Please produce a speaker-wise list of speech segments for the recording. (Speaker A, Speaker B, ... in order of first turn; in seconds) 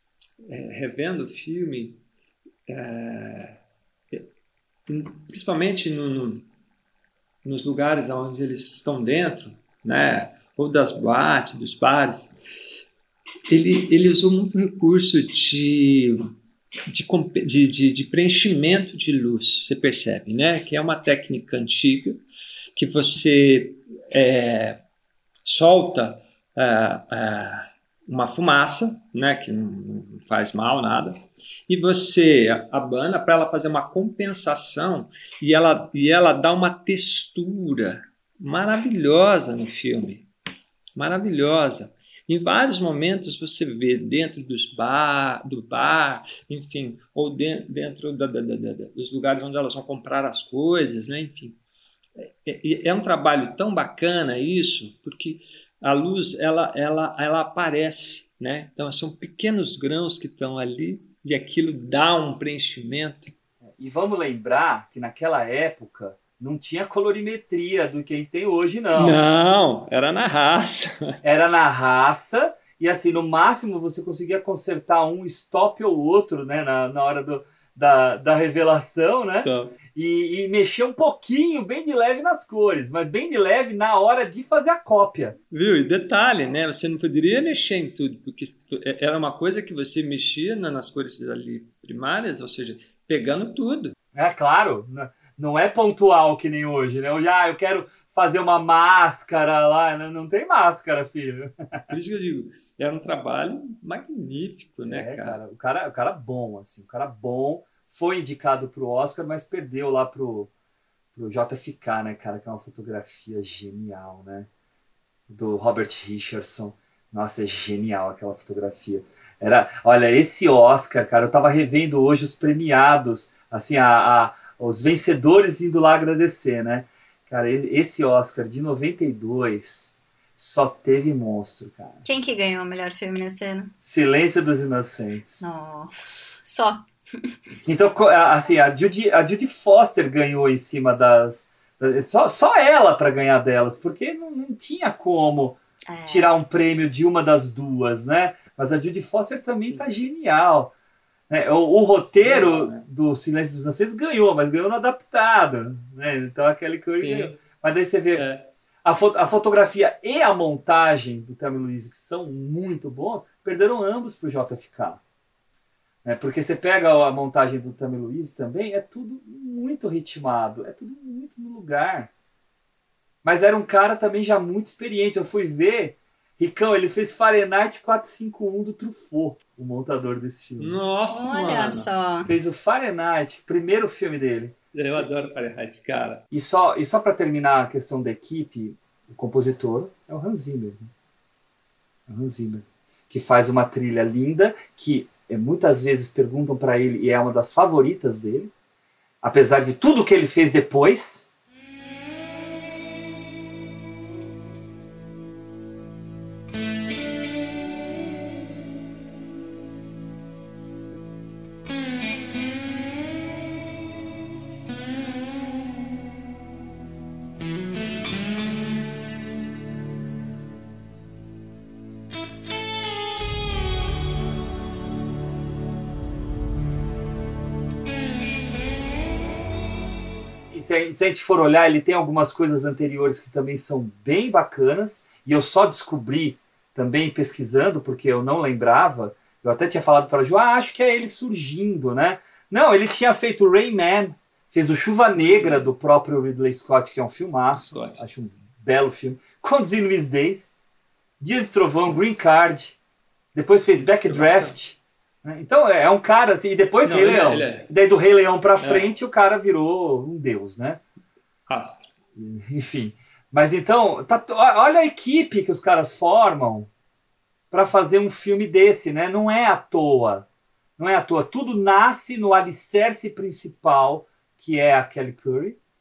Speaker A: 0.5-2.0, 2.7-3.6, 4.9-6.5, 7.4-12.3, 13.5-16.3, 16.9-22.2, 22.7-24.8, 25.4-40.2, 41.0-51.6, 52.2-63.3, 68.9-71.1, 79.4-79.8, 85.5-93.9, 101.9-105.4, 152.2-152.8, 156.9-157.4, 158.1-158.4, 180.6-181.9, 184.7-186.2, 245.2-245.7, 247.5-248.0, 253.7-254.6, 256.8-257.7, 258.6-258.9, 261.5-261.9
Speaker B: 63.6-69.2, 71.2-85.4, 94.1-101.5, 104.8-110.5, 111.1-114.5, 115.3-132.0, 133.8-135.4, 137.7-150.7, 151.3-158.3, 158.8-165.0, 166.0-172.1, 173.2-180.8, 182.2-184.5, 186.3-190.9, 192.1-198.5, 199.2-201.3, 230.5-250.5, 251.2-252.8, 253.3-260.8, 262.1-266.7, 267.5-270.2, 270.8-275.6
Speaker C: 132.0-133.7, 135.4-135.9, 136.4-137.3, 145.9-146.3, 181.1-182.2